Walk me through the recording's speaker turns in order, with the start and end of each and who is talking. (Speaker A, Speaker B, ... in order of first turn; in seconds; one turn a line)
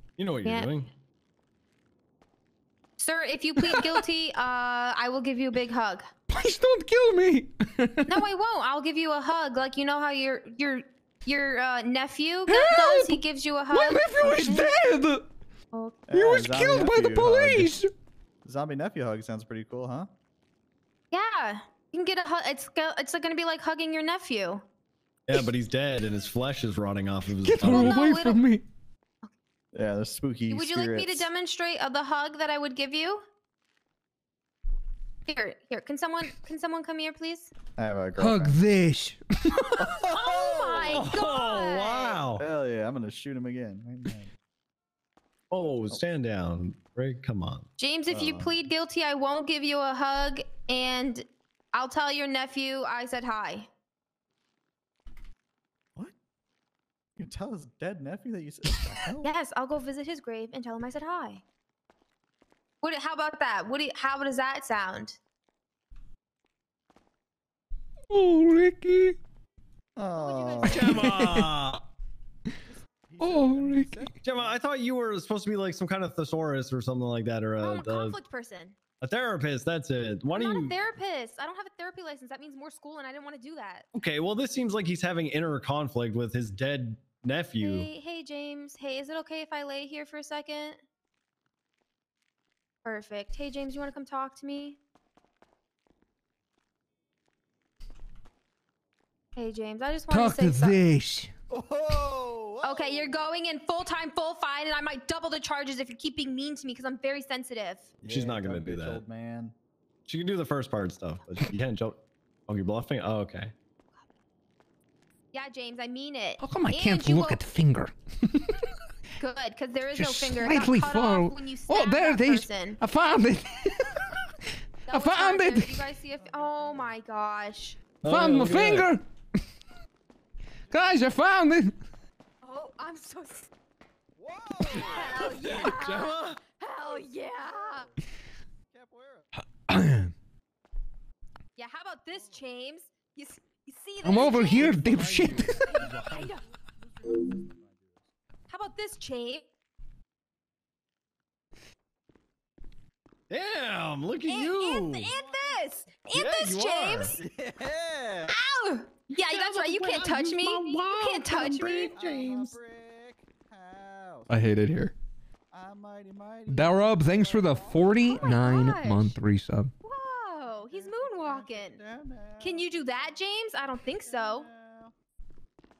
Speaker A: 0.2-0.9
Speaker B: 0.4-0.7
Speaker B: 3.0-6.1
Speaker C: 3.6-4.0
Speaker C: 6.3-8.2
Speaker B: 8.1-14.7
Speaker C: 12.5-13.2
Speaker C: 13.7-15.3
Speaker B: 15.7-16.0
Speaker D: 16.1-17.7
Speaker C: 16.1-17.9
Speaker D: 18.4-20.1
Speaker B: 21.1-24.6
Speaker A: 25.3-27.9
Speaker C: 27.4-28.6
Speaker B: 27.6-28.4
Speaker D: 29.7-31.3
Speaker B: 30.5-33.2
Speaker B: 35.2-37.5
Speaker D: 37.8-38.5
Speaker C: 38.2-39.8
Speaker D: 39.8-41.1
Speaker B: 40.1-42.2
Speaker A: 40.9-42.4
Speaker D: 42.4-44.3
Speaker A: 45.5-47.7
Speaker B: 47.8-53.7
Speaker D: 48.1-48.5
Speaker D: 57.2-59.3
Speaker B: 59.2-61.4
Speaker B: 62.8-65.2
Speaker C: 68.1-69.2
Speaker D: 70.0-71.1
Speaker B: 70.1-70.9
Speaker A: 70.6-71.8
Speaker C: 70.9-71.5
Speaker D: 72.7-74.6
Speaker C: 73.2-74.1
Speaker A: 74.2-78.2
Speaker B: 77.6-78.7
Speaker A: 79.0-80.8
Speaker B: 80.3-83.8
Speaker A: 83.9-87.9
Speaker B: 87.6-90.8
Speaker B: 92.8-94.8
Speaker B: 99.3-100.8
Speaker C: 100.1-101.3
Speaker D: 101.5-103.3
Speaker B: 102.6-107.9
Speaker D: 108.0-109.5
Speaker A: 108.0-109.0
Speaker A: 110.0-112.0
Speaker A: 112.5-113.5
Speaker B: 115.3-117.4
Speaker C: 116.4-118.5
Speaker B: 119.2-122.8
Speaker C: 119.9-124.2
Speaker B: 124.9-127.8
Speaker C: 124.9-125.8
Speaker D: 126.3-126.9
Speaker A: 128.0-128.9
Speaker C: 128.0-129.0
Speaker C: 130.7-131.7
Speaker B: 132.4-133.5
Speaker D: 134.2-135.4
Speaker B: 134.8-137.9
Speaker A: 135.1-136.4
Speaker D: 137.2-138.0
Speaker D: 138.7-139.3
Speaker C: 139.7-140.1
Speaker B: 141.6-144.8
Speaker D: 142.1-142.4
Speaker C: 144.0-145.9
Speaker D: 144.7-148.1
Speaker B: 145.5-146.4
Speaker B: 148.5-149.4
Speaker A: 153.3-155.1
Speaker B: 154.3-157.2
Speaker D: 155.1-155.6
Speaker A: 156.1-157.1
Speaker D: 157.2-158.3
Speaker B: 158.3-161.9
Speaker A: 161.3-162.0
Speaker D: 161.5-164.5
Speaker C: 164.3-164.9
Speaker D: 165.5-168.7
Speaker C: 166.5-169.7
Speaker B: 168.1-169.2
Speaker B: 169.8-171.8
Speaker D: 170.4-173.2
Speaker B: 172.4-174.5
Speaker D: 173.7-174.9